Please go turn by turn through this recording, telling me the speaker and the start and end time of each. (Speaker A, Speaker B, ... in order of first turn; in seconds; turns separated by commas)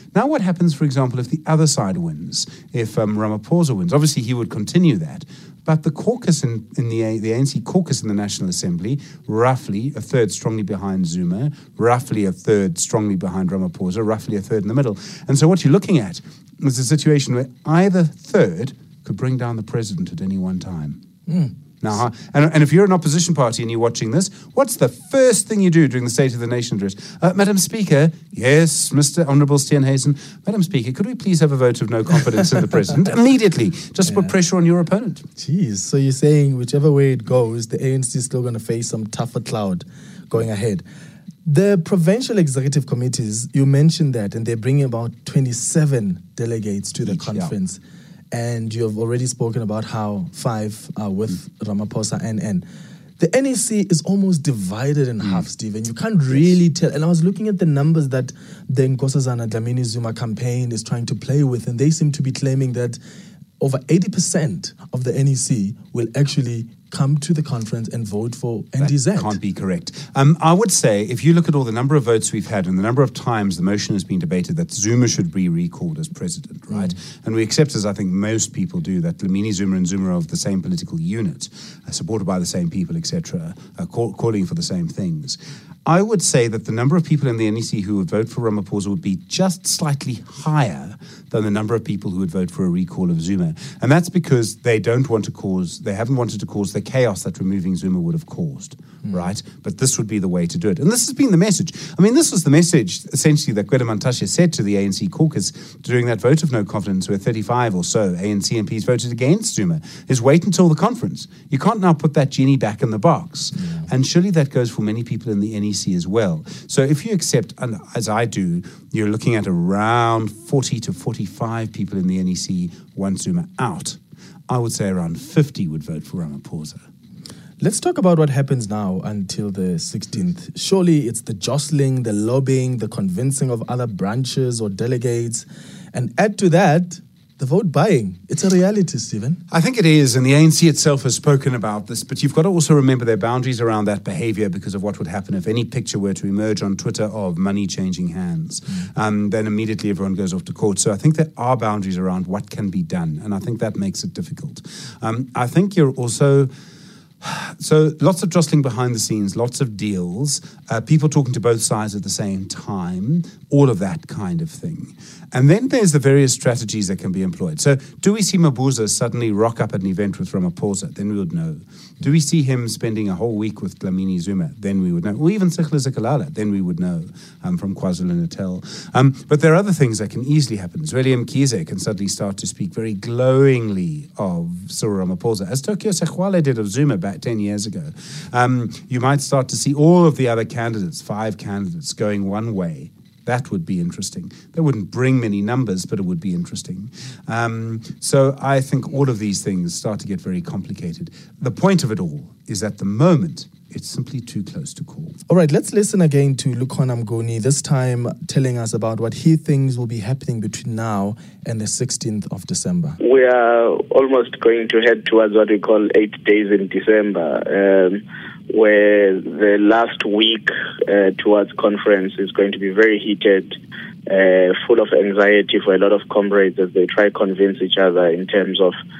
Speaker A: 0.1-21.0, Speaker B: 21.3-21.6, Speaker A: 21.8-35.2, Speaker B: 34.1-34.3, Speaker B: 35.4-40.8, Speaker B: 41.5-52.6, Speaker A: 47.0-47.5, Speaker B: 53.2-63.0, Speaker B: 63.6-69.4, Speaker A: 68.8-124.0, Speaker B: 113.5-113.9, Speaker A: 124.5-126.8, Speaker B: 127.6-139.4, Speaker A: 139.5-156.5, Speaker A: 157.2-205.2, Speaker B: 205.3-213.0, Speaker C: 213.0-228.7